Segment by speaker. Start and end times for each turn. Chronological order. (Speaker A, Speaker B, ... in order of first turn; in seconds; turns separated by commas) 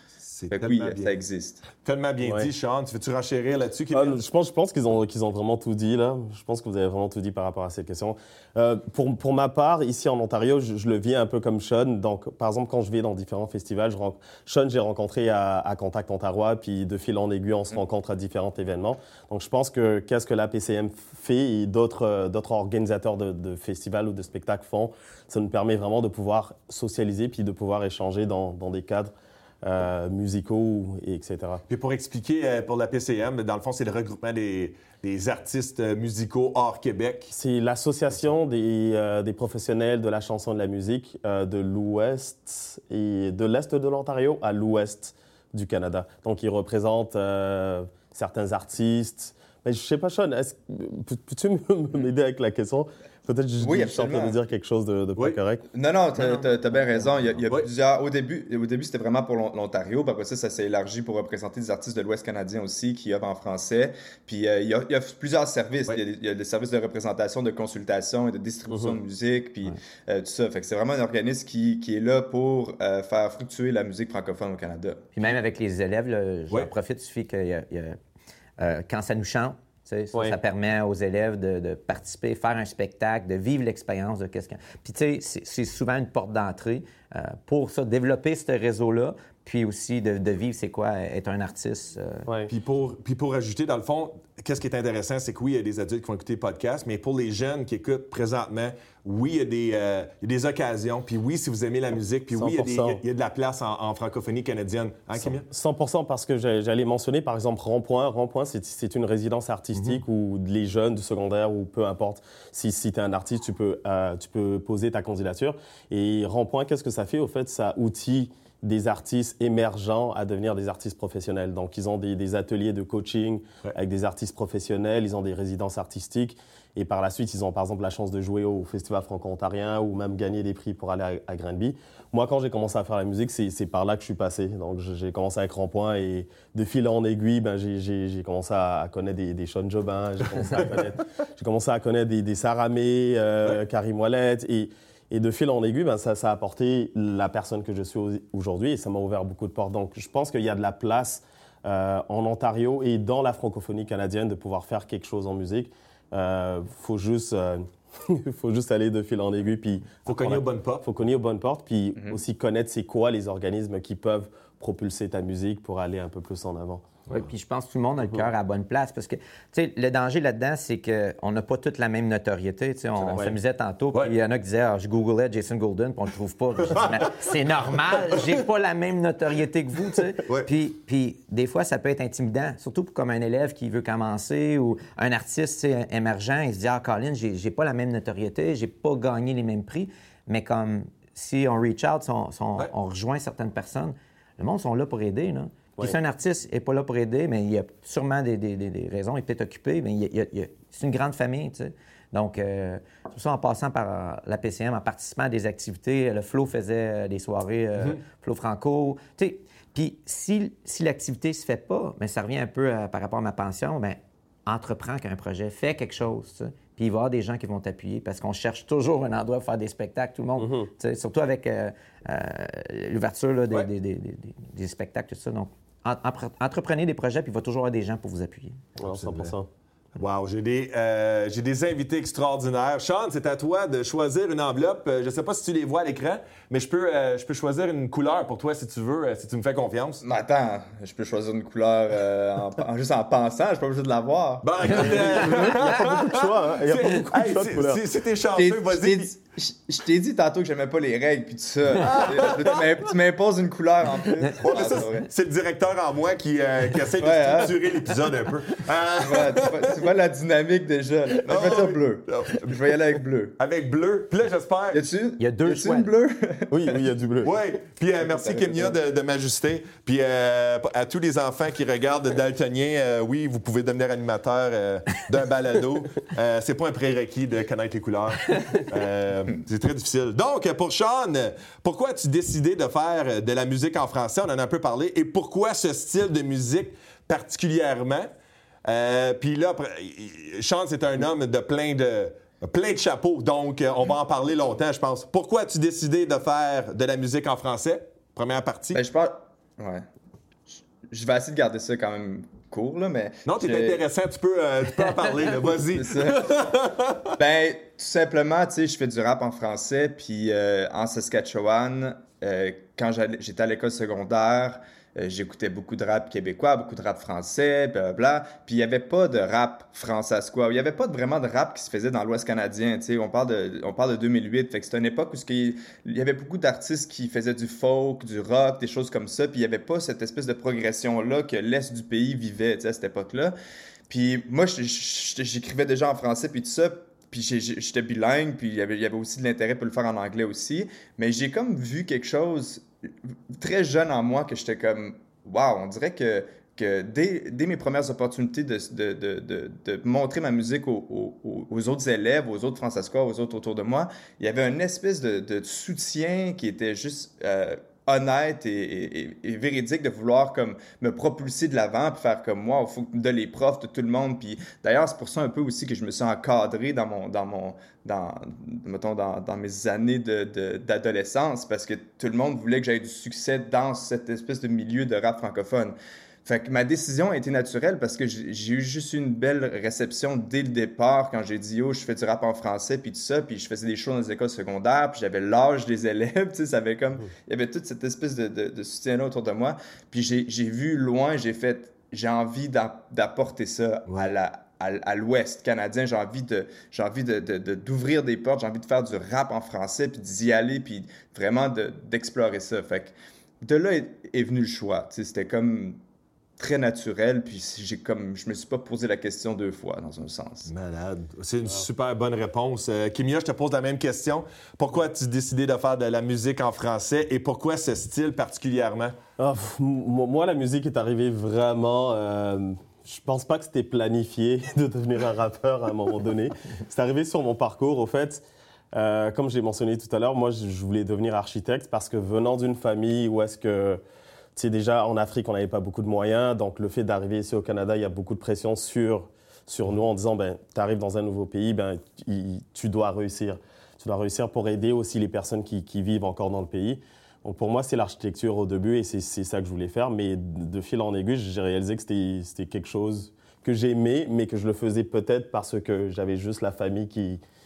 Speaker A: 0.2-1.2, Speaker B: 0.5-1.6, Speaker A: 1.8-4.2, Speaker C: 2.2-2.5, Speaker C: 3.9-29.1, Speaker C: 29.6-31.6, Speaker A: 31.7-37.3, Speaker C: 37.3-55.7, Speaker B: 53.6-54.4, Speaker B: 55.7-75.0, Speaker D: 56.2-57.4, Speaker C: 68.7-69.0, Speaker D: 75.1-78.0, Speaker D: 78.6-92.3, Speaker C: 92.3-92.5, Speaker A: 92.5-105.5, Speaker C: 102.3-103.0, Speaker C: 105.2-166.9, Speaker A: 160.1-160.8, Speaker D: 167.1-228.6, Speaker C: 173.0-173.3, Speaker C: 220.4-220.7, Speaker C: 228.8-229.5, Speaker A: 228.9-229.3, Speaker A: 229.9-240.0, Speaker B: 240.0-244.9, Speaker A: 244.4-249.1, Speaker C: 245.0-247.8, Speaker B: 248.4-255.1, Speaker A: 251.8-252.8, Speaker A: 254.2-259.9, Speaker B: 257.0-257.6, Speaker B: 259.0-263.4, Speaker A: 261.2-262.6, Speaker A: 263.4-264.8, Speaker B: 264.7-266.8, Speaker D: 265.2-265.9, Speaker C: 266.5-267.3, Speaker A: 267.2-288.1, Speaker A: 288.6-298.8, Speaker B: 298.7-299.9, Speaker B: 300.9-303.8, Speaker A: 303.2-307.2, Speaker B: 305.7-306.3, Speaker B: 307.2-333.4, Speaker B: 333.9-342.6, Speaker B: 343.4-405.8, Speaker B: 406.4-410.5, Speaker A: 410.5-418.9, Speaker C: 419.2-433.8, Speaker C: 434.4-457.2